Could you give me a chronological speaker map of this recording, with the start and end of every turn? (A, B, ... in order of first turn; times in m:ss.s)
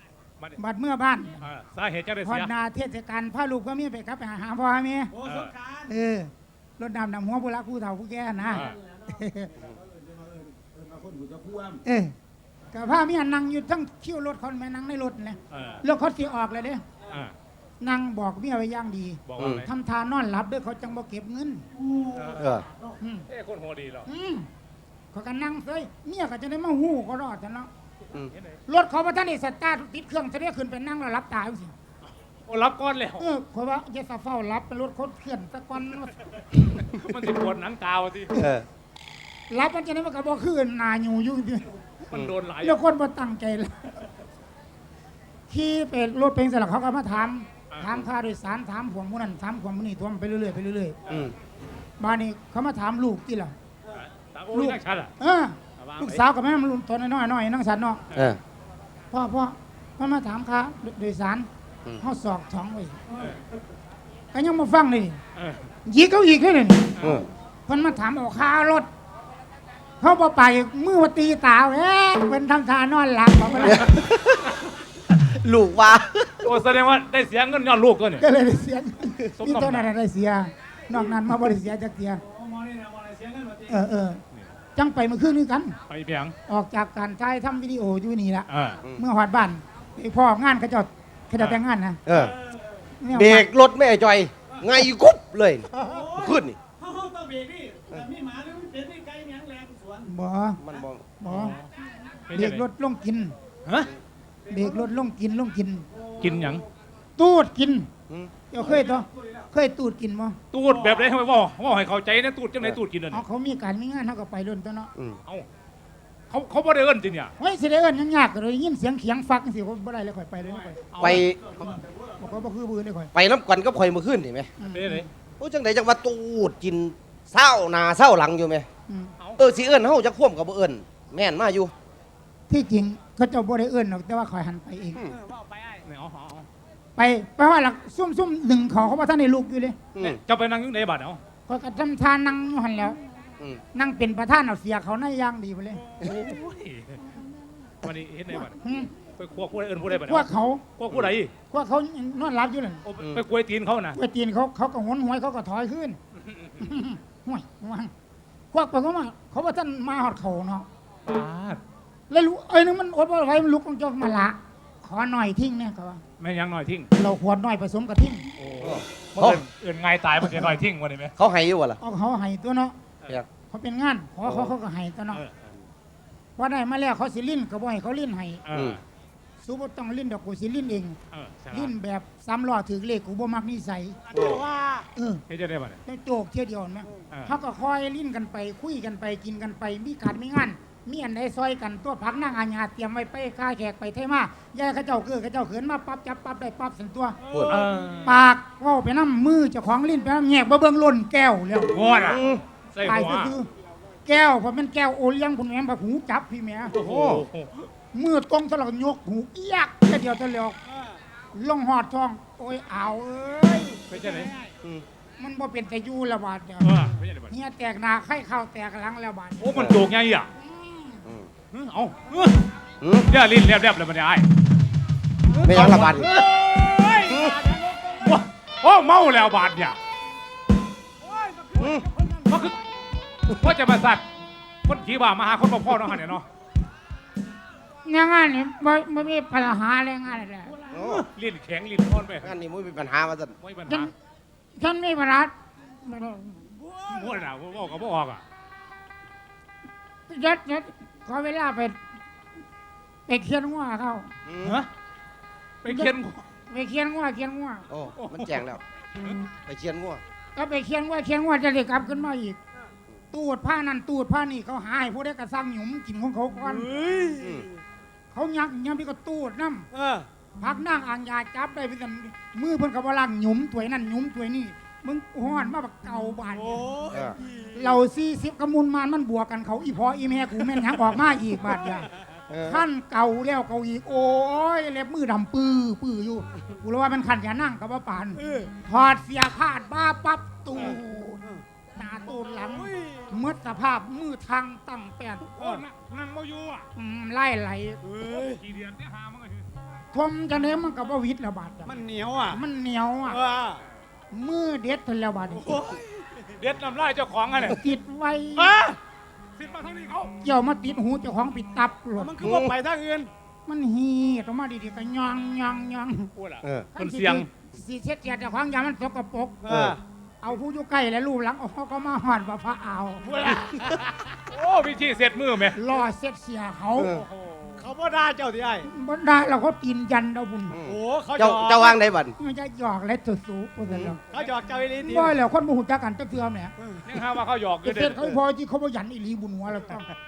0:00.6-0:01.4 A
0:01.4-0:02.5 B
0:02.2-0:05.2 A
0:05.2-0:05.8 C
0:05.2-0:05.5 B
0:05.9-0:09.5 A
0:08.5-0:08.8 B
0:11.0-0:11.8 C
0:11.8-0:12.1 A
0:12.7-0:16.8 A
0:15.5-0:15.8 B
0:17.8-0:21.7 A
0:19.3-0:19.7 B
0:19.4-0:19.6 D
0:22.2-0:22.4 B
0:22.4-0:22.7 D
0:23.0-0:23.3 A
0:23.3-0:24.1 B
0:24.1-0:24.5 A
0:25.1-0:27.7 A
0:28.7-0:31.7 A
0:32.5-0:33.3 B
0:33.2-0:36.3 A
0:36.8-0:38.3 B
0:38.3-0:38.7 D
0:39.5-0:41.8 A
0:42.1-0:42.8 B
0:42.6-0:43.9 A
0:45.5-0:51.0 A
0:47.7-0:48.0 B
0:51.1-0:51.3 D
0:52.0-0:53.6 A
0:54.0-0:55.1 B
0:54.5-0:58.0 A
0:55.8-0:56.2 B
0:58.1-0:58.4 D
0:59.1-1:01.5 A
1:02.0-1:03.0 A
1:04.3-1:05.2 A
1:05.4-1:05.6 B
1:05.8-1:06.9 A
1:07.0-1:07.3 D
1:07.7-1:08.9 A
1:10.0-1:13.9 A
1:13.6-1:14.5 D
1:15.2-1:16.5 D
1:16.4-1:18.2 B
1:18.2-1:22.2 A
1:19.4-1:19.9 B
1:22.4-1:23.7 C
1:23.7-1:24.2 A
1:24.8-1:25.8 A
1:25.9-1:26.4 B
1:26.5-1:32.0 A
1:28.5-1:28.8 B
1:32.1-1:32.4 D
1:33.0-1:33.5 A
1:33.1-1:36.6 D
1:35.8-1:40.1 C
1:40.0-1:40.6 A
1:40.6-1:41.2 D
1:41.2-1:41.6 A
1:41.3-1:41.7 B
1:42.3-1:42.6 B
1:42.3-1:43.4 A
1:44.5-1:45.9 A
1:46.0-1:46.6 C
1:46.2-1:46.7 B
1:47.2-1:47.9 A
1:48.1-1:48.4 D
1:48.5-1:50.4 A
1:50.5-1:53.2 B
1:53.1-1:54.9 A
1:56.3-1:57.3 B
1:57.4-2:00.8 A
2:00.9-2:01.3 B
2:01.0-2:01.7 D
2:02.2-2:03.1 A
2:03.1-2:04.5 D
2:04.6-2:05.1 A
2:04.7-2:05.1 B
2:05.4-2:08.7 D
2:09.4-2:11.7 D
2:12.5-2:15.1 A
2:15.2-2:15.8 C
2:15.8-2:16.5 B
2:17.0-2:19.8 A
2:19.9-2:20.2 D
2:20.0-2:21.2 B
2:21.5-2:23.0 A
2:23.7-2:25.8 A
2:26.0-2:27.1 B
2:27.8-2:28.6 B
2:28.5-2:28.9 A
2:29.2-2:31.3 B
2:29.9-2:30.6 A
2:31.5-2:32.8 A
2:32.8-2:34.0 B
2:34.0-2:36.0 A
2:36.6-2:37.9 A
2:38.5-2:40.7 A
2:41.1-2:41.6 B
2:42.1-2:46.0 A
2:46.2-2:46.9 B
2:46.9-2:48.3 A
2:48.4-2:51.1 B
2:48.6-2:49.4 D
2:51.2-2:51.8 D
2:51.8-2:52.8 A
2:53.5-2:55.2 A
2:54.3-2:54.5 D
2:56.4-2:58.4 A
2:58.4-2:58.8 B
2:58.5-2:58.8 D
2:59.4-3:01.0 A
3:01.1-3:01.7 B
3:01.5-3:04.0 A
3:04.1-3:04.9 C
3:04.1-3:04.4 D
3:05.0-3:05.2 A
3:05.3-3:05.8 B
3:05.9-3:17.2 A
3:17.3-3:17.6 C
3:17.3-3:17.6 D
3:17.5-3:18.2 B
3:18.0-3:21.7 A
3:21.7-3:23.3 B
3:22.0-3:22.4 D
3:22.8-3:23.5 A
3:24.1-3:26.8 A
3:26.7-3:27.7 B
3:26.8-3:27.2 D
3:27.9-3:30.6 A
3:31.3-3:34.5 A
3:33.9-3:34.3 B
3:35.2-3:36.8 A
3:36.6-3:37.3 B
3:37.3-3:39.6 A
3:39.4-3:40.3 B
3:40.4-3:41.0 A
3:41.5-3:42.4 B
3:42.8-3:43.1 D
3:43.0-3:44.3 B
3:45.4-3:47.1 B
3:45.4-3:46.2 D
3:46.2-3:48.1 C
3:47.1-3:47.4 D
3:48.0-3:49.8 B
3:51.0-3:52.4 C
3:51.6-3:51.9 D
3:52.3-3:52.6 B
3:53.3-3:54.0 B
3:54.6-3:56.3 B
3:57.8-4:00.6 A
4:00.7-4:01.1 D
4:00.9-4:02.3 B
4:02.2-4:03.4 D
4:03.4-4:03.9 B
4:03.7-4:03.9 A
4:04.6-4:06.5 A
4:06.6-4:06.9 C
4:06.9-4:08.2 B
4:10.1-4:11.8 A
4:13.1-4:14.1 A
4:14.3-4:14.6 D
4:15.6-4:16.2 B
4:15.7-4:16.0 A
4:16.5-4:17.7 A
4:17.7-4:18.6 D
4:18.0-4:18.4 B
4:19.5-4:20.0 D
4:20.4-4:22.4 A
4:23.1-4:26.7 A
4:26.5-4:27.5 C
4:27.2-4:27.5 D
4:28.1-4:29.7 A
4:29.7-4:30.1 C
4:30.4-4:36.8 A
4:36.4-4:37.5 C
4:37.5-4:41.9 A
4:42.3-4:42.6 D
4:42.4-4:55.7 A
4:48.2-4:48.5 C
4:50.6-4:51.4 C
4:52.5-4:53.1 C
4:55.4-4:55.6 C
4:55.8-4:56.7 B
4:56.8-4:57.9 A
4:57.8-4:58.4 C
4:58.1-4:59.5 B
4:59.9-5:03.2 A
5:01.6-5:02.4 C
5:03.1-5:03.6 C
5:04.1-5:05.6 A
5:05.4-5:06.2 C
5:06.4-5:07.6 B
5:07.4-5:08.6 A
5:08.4-5:08.8 C
5:09.4-5:10.1 B
5:10.2-5:12.2 A
5:12.0-5:13.1 C
5:12.2-5:12.6 D
5:13.5-5:16.1 A
5:16.2-5:17.3 B
5:16.4-5:16.7 D
5:16.8-5:19.4 A
5:19.4-5:19.8 C
5:19.5-5:19.8 D
5:20.2-5:23.3 A
5:23.0-5:23.5 C
5:23.8-5:25.6 B
5:25.5-5:26.9 A
5:26.8-5:27.0 D
5:26.9-5:27.6 B
5:27.6-5:28.7 C
5:28.7-5:30.6 A
5:30.5-5:32.2 D
5:30.6-5:31.7 C
5:32.2-5:34.0 A
5:33.7-5:34.0 D
5:34.1-5:35.2 C
5:34.8-5:36.5 A
5:36.9-5:38.2 B
5:37.6-5:39.9 A